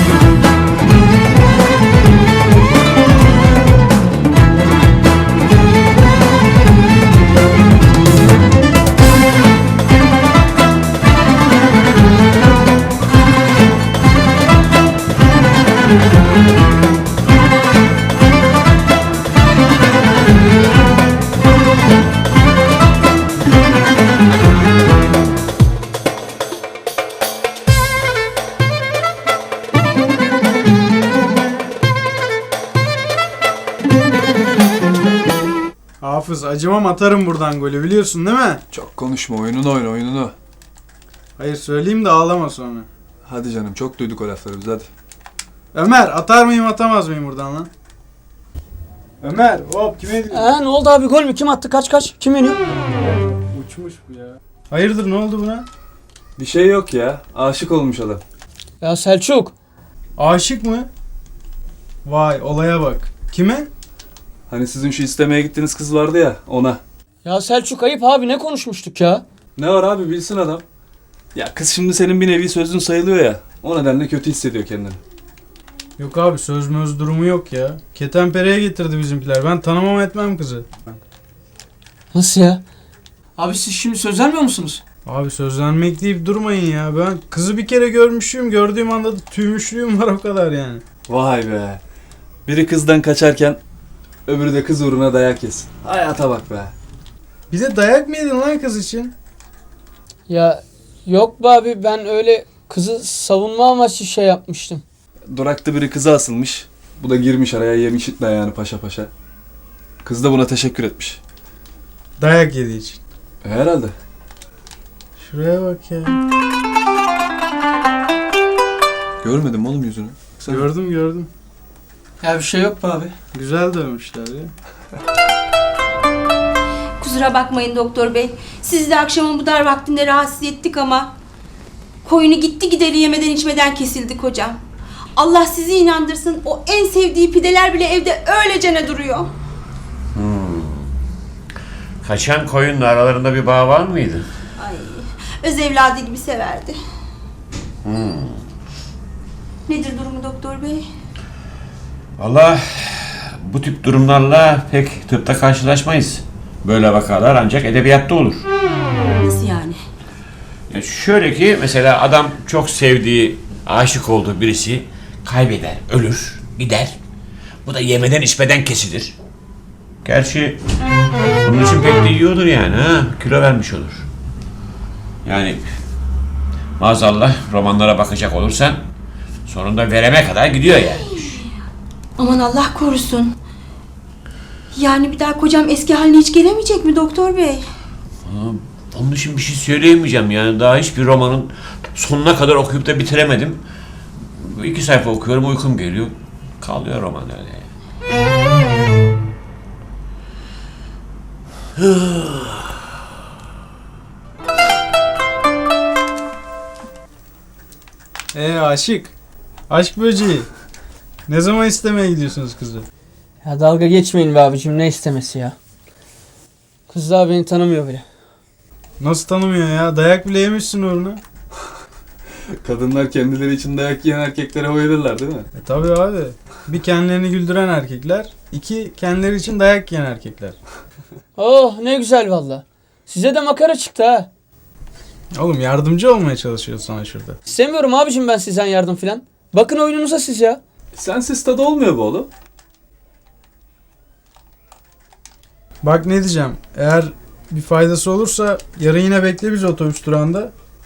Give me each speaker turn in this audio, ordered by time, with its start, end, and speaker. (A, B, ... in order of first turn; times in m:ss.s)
0:36.0-0:38.6 A
0:38.7-0:40.3 B
0:41.4-0:42.9 A
0:43.2-0:44.9 B
0:45.7-0:47.7 A
0:49.2-0:50.5 A
0:50.3-0:52.6 C
0:53.0-0:55.7 A
0:56.4-0:58.2 B
0:58.8-0:59.5 C
1:00.2-1:00.9 A
1:02.0-1:03.7 A
1:04.5-1:06.8 B
1:07.2-1:09.2 C
1:09.6-1:10.6 B
1:11.3-1:15.0 B
1:16.0-1:21.0 A
1:22.1-1:22.6 C
1:23.4-1:24.8 C
1:25.0-1:30.8 A
1:31.1-1:31.8 B
1:32.4-1:33.6 B
1:34.3-1:36.7 B
1:37.5-1:39.1 A
1:40.3-1:44.8 C
1:45.3-1:49.1 B
1:50.0-1:51.2 B
1:52.2-1:53.0 A
1:53.4-1:53.9 B
1:55.2-1:56.2 A
1:59.2-2:00.6 B
2:00.5-2:01.3 A
2:02.2-2:03.2 C
2:03.3-2:04.5 A
2:07.0-2:11.1 D
2:12.0-2:14.6 D
2:15.2-2:19.3 D
2:20.1-2:20.9 E
2:22.0-2:24.3 E
2:24.6-2:26.8 D
2:27.8-2:28.4 E
2:29.7-2:30.8 D
2:32.2-2:38.4 E
2:39.2-2:39.8 D
2:40.7-2:46.9 E
2:47.6-2:49.1 E
2:50.0-2:50.6 E
2:51.4-2:54.1 E
2:55.2-2:55.6 E
2:56.8-2:58.8 E
2:59.4-3:01.4 E
3:02.2-3:03.3 D
3:04.7-3:07.6 D
3:08.2-3:13.6 E
3:14.4-3:17.7 E
3:21.8-3:22.8 E
3:28.3-3:29.1 A
3:29.7-3:30.5 A
3:31.3-3:32.8 A
3:33.4-3:35.6 C
3:36.9-3:38.0 C
3:39.0-3:41.2 A
3:42.6-3:45.5 B
3:45.6-3:50.6 A
3:51.4-3:54.3 C
3:55.4-3:57.4 A
3:57.4-4:00.6 C
4:00.9-4:02.3 B
4:05.8-4:10.5 A